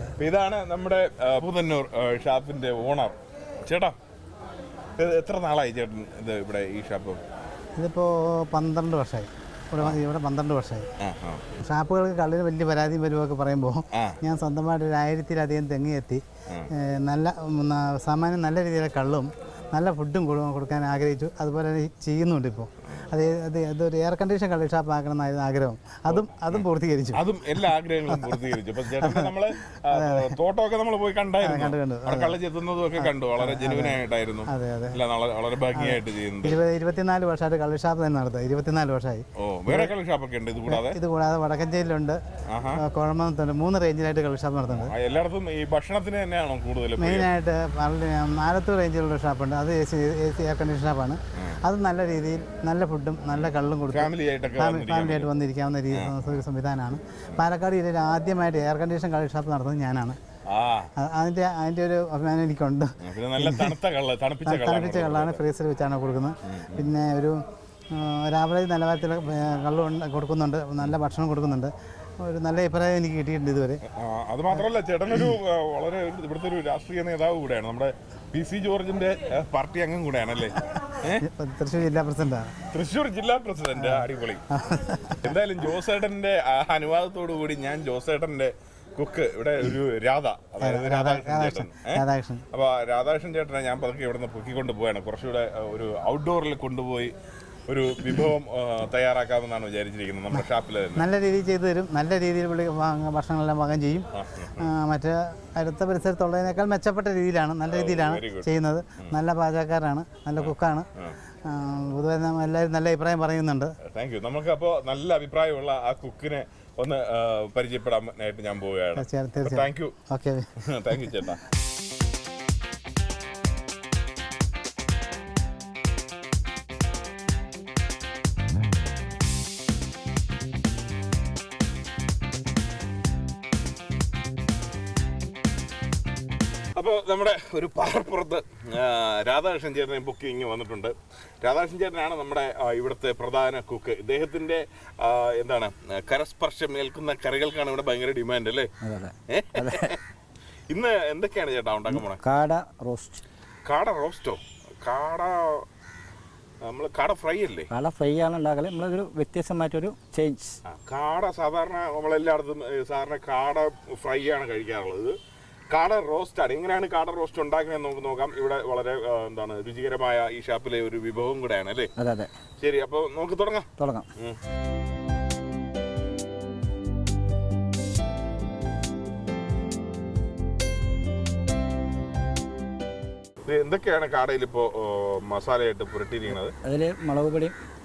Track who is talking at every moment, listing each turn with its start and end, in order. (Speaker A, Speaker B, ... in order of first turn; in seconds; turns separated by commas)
Speaker A: 0.2-4.0, Speaker A: 5.0-7.2, Speaker B: 7.8-10.9, Speaker A: 11.0-11.5, Speaker B: 11.7-16.2, Speaker A: 13.9-14.2, Speaker B: 16.8-27.2, Speaker A: 26.1-36.6, Speaker B: 29.9-30.3, Speaker B: 31.4-32.4, Speaker B: 33.0-35.0, Speaker B: 35.7-39.9, Speaker A: 39.4-41.0, Speaker B: 40.7-42.2, Speaker A: 42.5-42.8, Speaker B: 42.8-44.9, Speaker A: 44.7-47.3, Speaker B: 47.0-60.2, Speaker A: 51.4-51.6, Speaker A: 53.9-55.3, Speaker A: 55.9-56.4, Speaker A: 60.5-60.9, Speaker B: 61.0-63.7, Speaker A: 63.0-65.4, Speaker B: 64.5-67.4, Speaker A: 66.5-66.9, Speaker B: 67.9-71.7, Speaker B: 72.2-73.8, Speaker A: 73.9-81.3, Speaker B: 81.2-82.5, Speaker A: 82.7-84.5, Speaker B: 83.8-85.2, Speaker A: 85.2-97.1, Speaker B: 90.6-92.4, Speaker A: 97.7-101.1, Speaker B: 101.0-104.1, Speaker A: 104.1-104.7, Speaker B: 104.6-110.9, Speaker A: 107.7-109.2, Speaker A: 110.4-111.2, Speaker B: 111.5-113.8, Speaker A: 113.8-120.0, Speaker B: 119.0-120.5, Speaker A: 120.6-121.4, Speaker A: 136.8-148.7, Speaker C: 148.8-149.9, Speaker A: 149.3-150.0, Speaker A: 150.7-152.2, Speaker C: 151.9-153.2, Speaker A: 153.7-155.7, Speaker A: 156.6-157.7, Speaker C: 157.7-160.6, Speaker A: 160.7-165.2, Speaker A: 165.7-171.9, Speaker C: 172.0-172.3, Speaker A: 172.6-174.4, Speaker C: 173.8-174.1, Speaker A: 183.4-186.5, Speaker C: 186.3-187.6